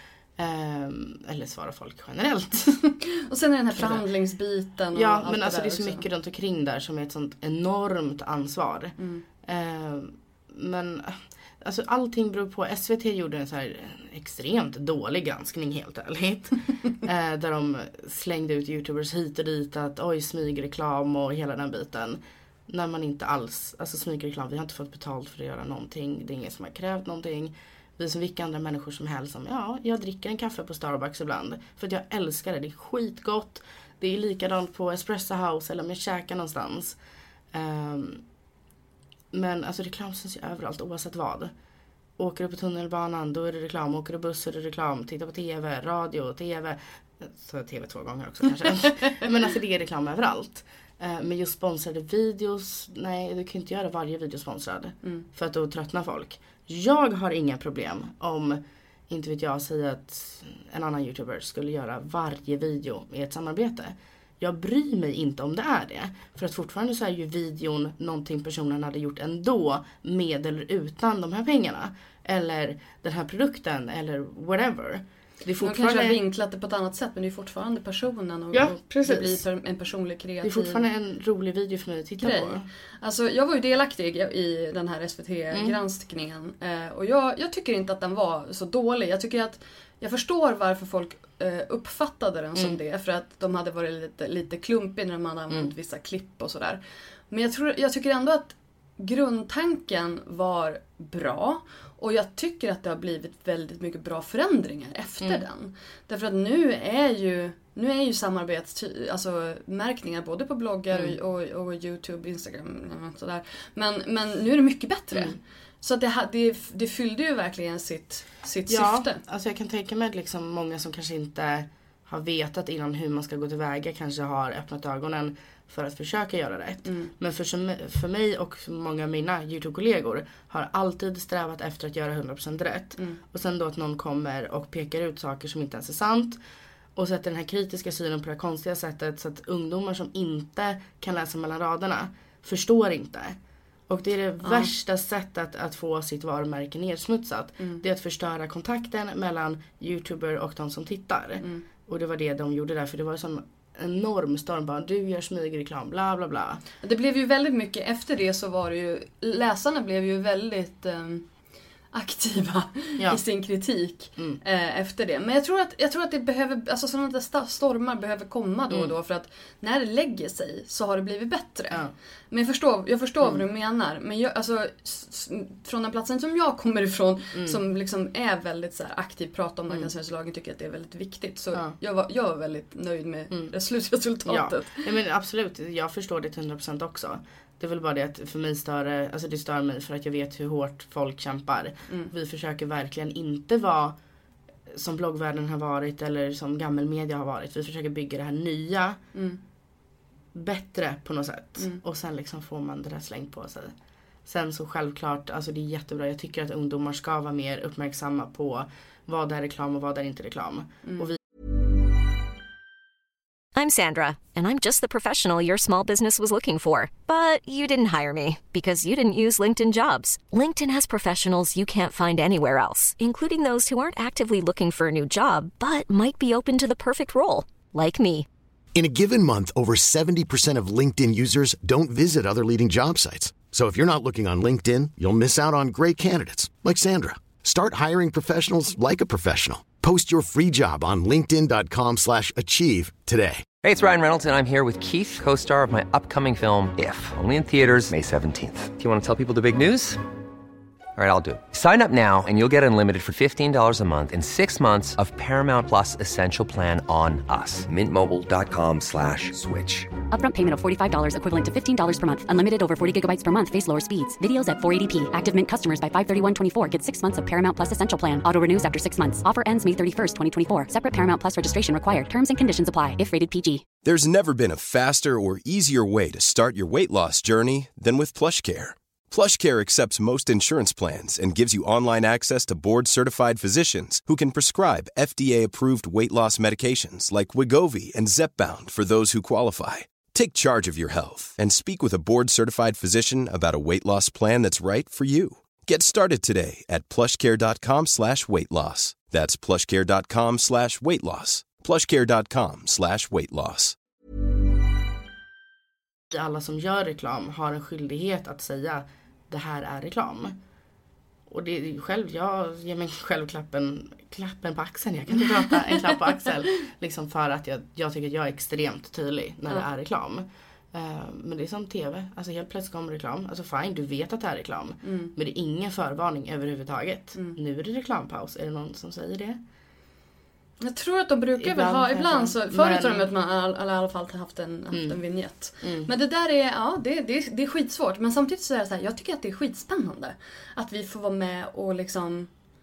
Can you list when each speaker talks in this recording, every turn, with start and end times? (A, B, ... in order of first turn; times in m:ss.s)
0:00.4-0:02.7 A
0:02.8-0:06.0 B
0:03.8-0:04.0 A
0:04.9-0:37.0 A
0:09.0-0:09.2 B
0:37.5-0:38.2 A
0:39.3-0:41.5 A
0:42.2-1:16.2 A
1:15.6-1:20.9 B
1:18.5-1:19.4 A
1:20.4-1:22.7 A
1:22.2-1:59.2 B
1:25.5-1:25.8 A
1:55.1-1:55.4 A
1:58.7-2:16.4 A
2:06.9-2:07.1 B
2:13.0-2:13.2 B
2:17.0-2:23.4 A
2:23.9-2:36.6 A
2:24.4-2:24.7 B
2:36.8-2:41.3 B
2:41.9-3:04.8 B
2:57.3-2:57.6 A
3:04.3-3:14.0 A
3:14.7-3:19.0 A
3:19.1-3:19.4 B
3:20.3-3:23.7 A
3:24.2-3:31.2 A
3:33.6-3:48.3 C
3:48.8-4:03.5 D
4:03.6-4:10.0 E
4:11.0-4:20.0 E
4:20.1-4:33.6 F
4:33.8-5:03.8 G
5:06.1-5:10.4 A
5:11.3-5:29.4 A
5:15.5-5:16.0 B
5:24.8-5:25.1 B
5:30.6-5:42.3 B
5:31.4-5:33.1 A
5:34.7-5:35.0 A
5:35.6-5:35.9 A